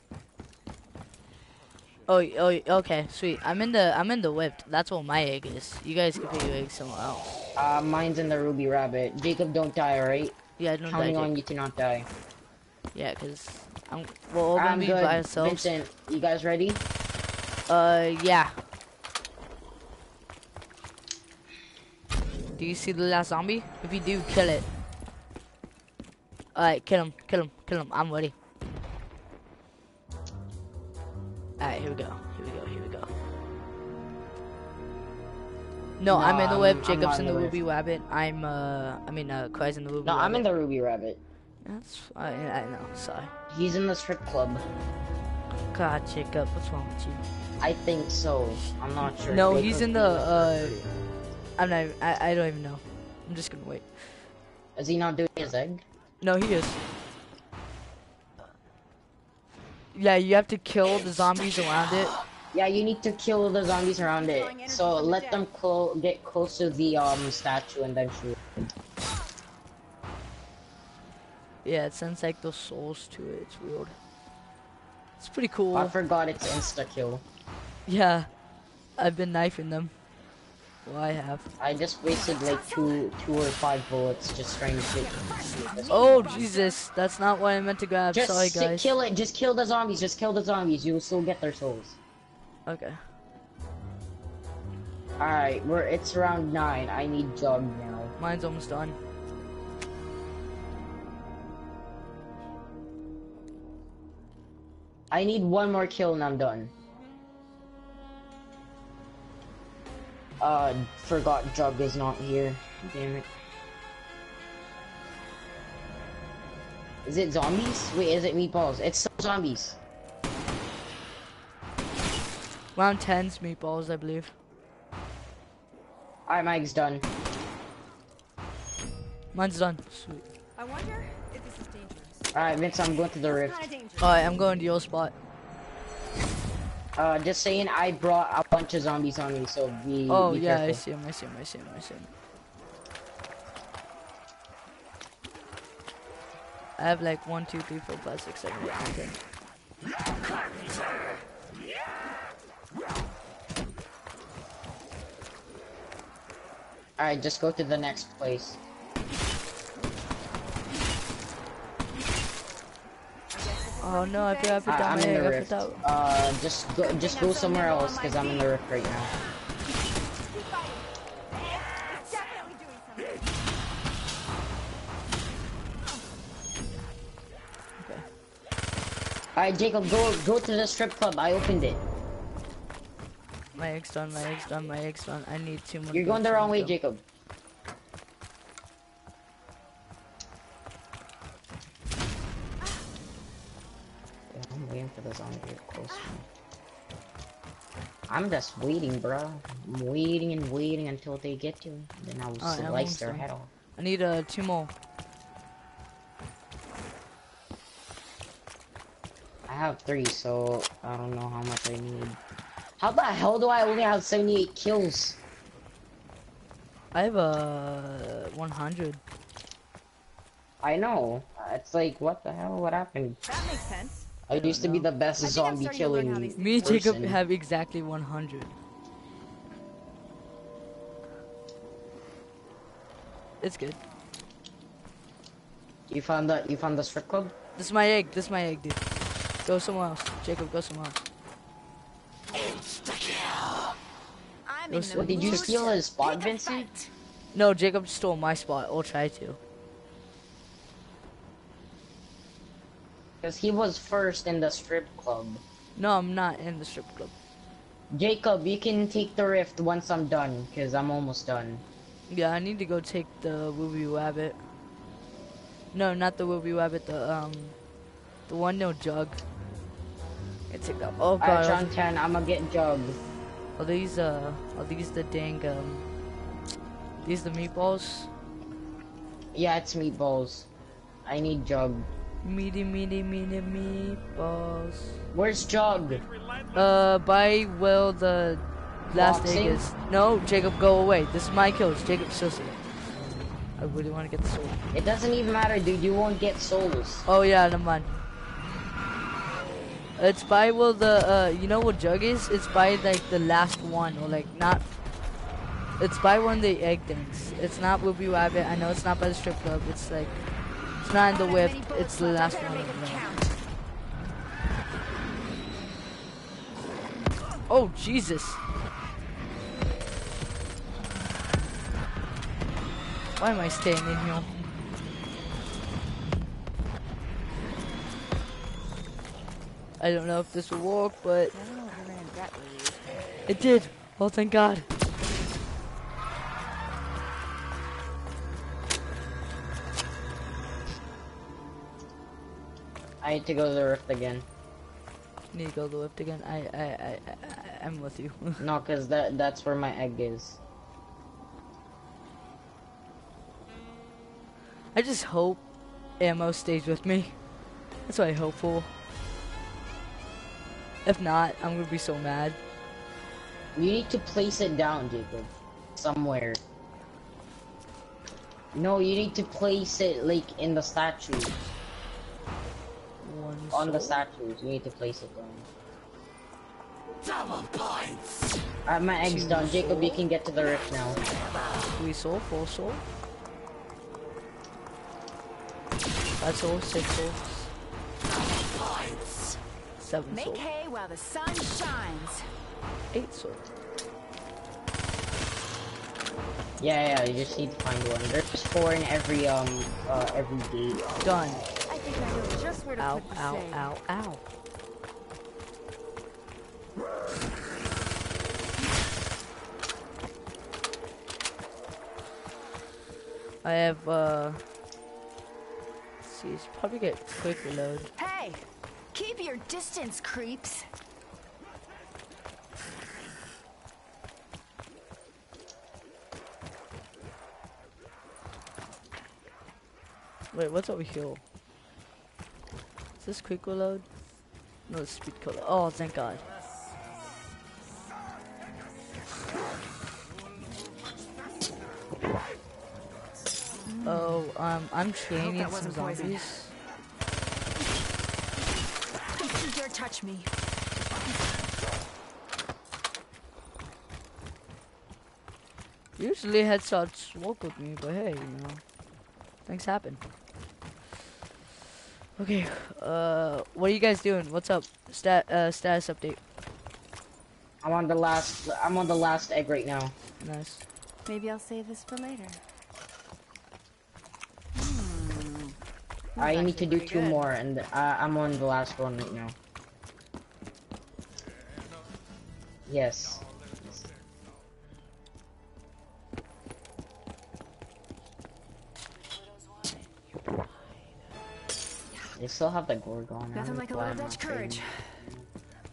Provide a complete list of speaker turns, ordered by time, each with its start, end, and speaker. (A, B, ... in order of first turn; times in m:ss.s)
0:02.1-0:07.3 A
0:07.6-0:12.1 B
0:10.6-0:11.3 A
0:12.9-0:15.7 A
0:14.6-0:16.8 B
0:17.7-0:18.6 A
0:22.6-0:24.6 A
0:26.5-0:28.3 A
0:31.6-0:33.1 A
0:36.0-0:40.4 A
0:36.1-0:37.6 B
0:40.0-0:41.2 B
0:41.6-0:43.3 A
0:43.5-0:44.6 B
0:45.7-0:47.2 A
0:47.6-0:50.9 B
0:49.3-0:50.7 A
0:51.6-0:54.1 A
0:54.8-0:55.8 B
0:56.2-0:56.8 A
0:59.9-1:02.1 A
1:02.5-1:08.4 B
1:04.2-1:05.5 C
1:11.6-1:13.9 A
1:15.2-1:15.9 A
1:15.7-1:17.2 B
1:17.9-1:18.3 A
1:19.0-1:19.9 A
1:20.8-1:21.5 A
1:21.6-1:26.5 B
1:22.1-1:23.1 C
1:24.7-1:26.8 C
1:25.9-1:28.9 A
1:28.1-1:32.0 B
1:32.6-1:33.0 A
1:35.2-1:38.1 B
1:38.2-1:39.0 A
1:45.1-1:46.7 B
1:50.4-1:53.3 B
1:57.0-1:59.8 B
2:02.7-2:04.3 A
2:06.3-2:07.0 B
2:09.3-2:10.2 A
2:10.6-2:12.3 C
2:12.3-2:13.6 B
2:13.2-2:14.7 C
2:14.0-2:15.1 A
2:17.0-2:20.8 B
2:20.1-2:22.1 A
2:26.8-2:29.2 A
2:37.0-2:38.6 B
2:43.3-2:45.0 C
2:43.8-2:45.8 A
2:44.7-2:49.1 B
2:46.8-2:48.6 C
2:50.2-2:53.3 C
2:57.8-2:58.0 A
2:59.3-3:01.8 B
3:03.6-3:06.7 A
3:05.9-3:07.0 B
3:14.3-3:16.2 B
3:18.1-3:23.5 B
3:22.4-3:23.2 A
3:23.8-3:24.7 A
3:29.5-3:32.2 B
3:32.8-3:35.2 B
3:36.9-3:39.0 A
3:40.6-3:43.2 B
3:43.2-3:44.1 C
3:44.3-3:47.2 B
3:44.3-3:44.9 A
3:45.2-3:46.9 C
3:46.4-3:48.5 A
3:53.4-3:53.8 A
3:55.9-3:57.3 B
3:57.6-3:58.8 A
3:59.4-4:01.0 A
4:04.4-4:06.9 C
4:04.7-4:05.7 A
4:04.9-4:06.7 B
4:07.3-4:09.4 A
4:13.2-4:15.4 B
4:15.8-4:17.1 A
4:17.9-4:21.6 B
4:22.1-4:24.4 A
4:25.7-4:27.5 A
4:28.3-4:29.2 A
4:30.5-4:31.7 A
4:31.2-4:33.0 B
4:33.6-4:35.8 A
4:37.0-4:38.1 A
4:39.3-4:40.5 B
4:41.0-4:41.9 B
4:42.2-4:45.0 A
4:45.1-4:46.0 B
4:46.5-4:52.6 A
4:48.9-4:49.6 B
4:53.6-4:54.6 A
4:54.7-4:57.0 B
4:57.0-4:57.9 A
5:00.0-5:04.6 A
5:05.8-5:10.2 A
5:10.8-5:13.0 A
5:11.1-5:13.4 C
5:17.5-5:18.4 A
5:23.2-5:24.4 A
5:29.8-5:31.3 A
5:31.3-5:33.0 C
5:33.3-5:34.6 A
5:43.0-5:44.2 B
5:45.3-5:48.4 A
5:48.4-5:50.4 B
5:54.7-5:55.4 A
5:56.0-5:57.1 A
5:57.9-5:58.7 A
6:00.8-6:02.4 A
6:03.5-6:06.4 B
6:08.5-6:11.3 B
6:13.0-6:14.0 A
6:13.5-6:15.5 B
6:18.6-6:21.0 B
6:19.0-6:20.0 A
6:21.7-6:22.8 A
6:26.2-6:27.5 A
6:29.8-6:30.4 A
6:30.1-6:32.2 C
6:32.9-6:33.4 A
6:36.6-6:40.9 B
6:41.0-6:41.4 A
6:41.7-6:43.7 C
6:42.8-6:44.2 A
6:53.4-6:54.4 A
6:56.0-6:57.9 A
6:58.0-7:00.6 C
7:10.3-7:11.2 A
7:13.0-7:13.8 A
7:14.7-7:16.2 A
7:23.6-7:24.2 C
7:23.8-7:26.5 A
7:25.1-7:26.4 C
7:29.1-7:31.2 C
7:36.0-7:38.6 A
7:39.4-7:40.0 A
7:42.2-7:46.2 A
7:47.6-7:49.9 B
7:50.2-7:50.6 A
7:51.0-7:52.4 C
7:54.5-7:55.6 C
7:56.2-7:57.3 A
7:56.2-7:59.4 B
8:02.7-8:03.9 B
8:12.2-8:14.6 B
8:13.3-8:14.8 C